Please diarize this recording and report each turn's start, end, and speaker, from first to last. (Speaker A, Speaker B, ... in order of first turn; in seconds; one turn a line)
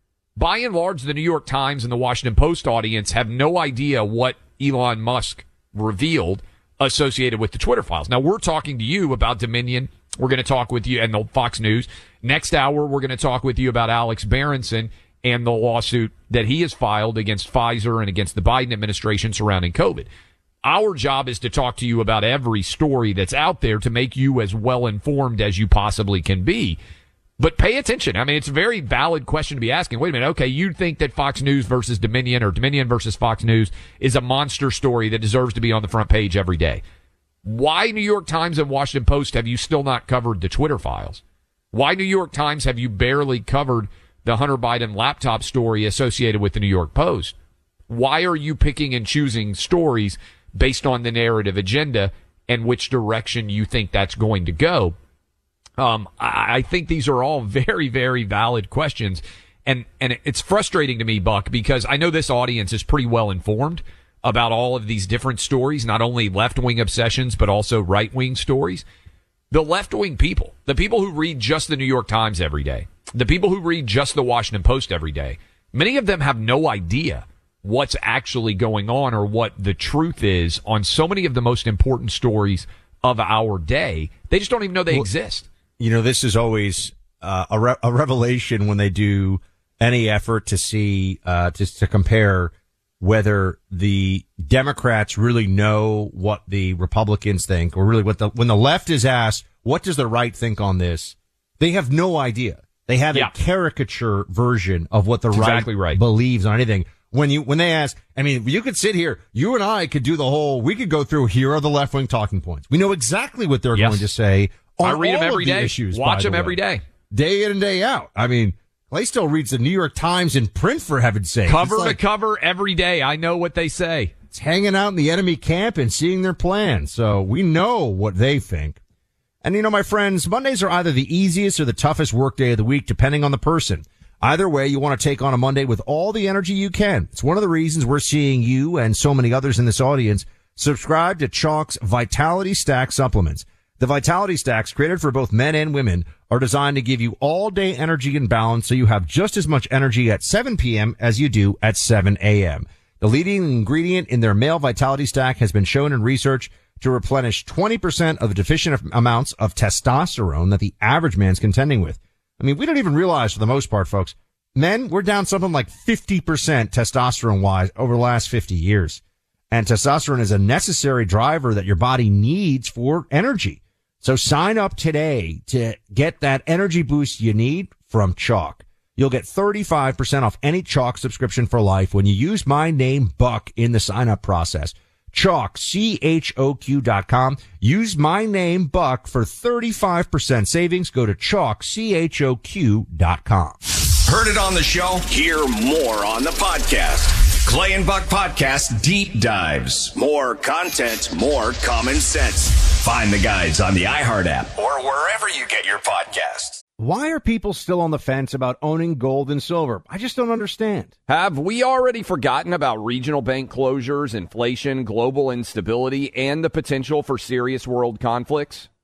Speaker A: 0.4-20.1
Speaker A: 20.6-26.8
Speaker A: 27.4-36.8
Speaker A: 37.5-41.2
Speaker A: 41.7-47.4
Speaker A: 47.9-55.0
Speaker A: 55.8-68.8
Speaker A: 69.5-85.5
Speaker B: 85.8-116.6
Speaker A: 105.3-106.0
Speaker A: 113.7-114.1
Speaker A: 114.8-116.8
Speaker B: 117.1-122.0
Speaker A: 121.5-124.1
Speaker B: 124.3-128.8
Speaker B: 129.4-193.6
Speaker C: 194.1-206.6
Speaker B: 206.8-210.9
Speaker A: 211.1-218.7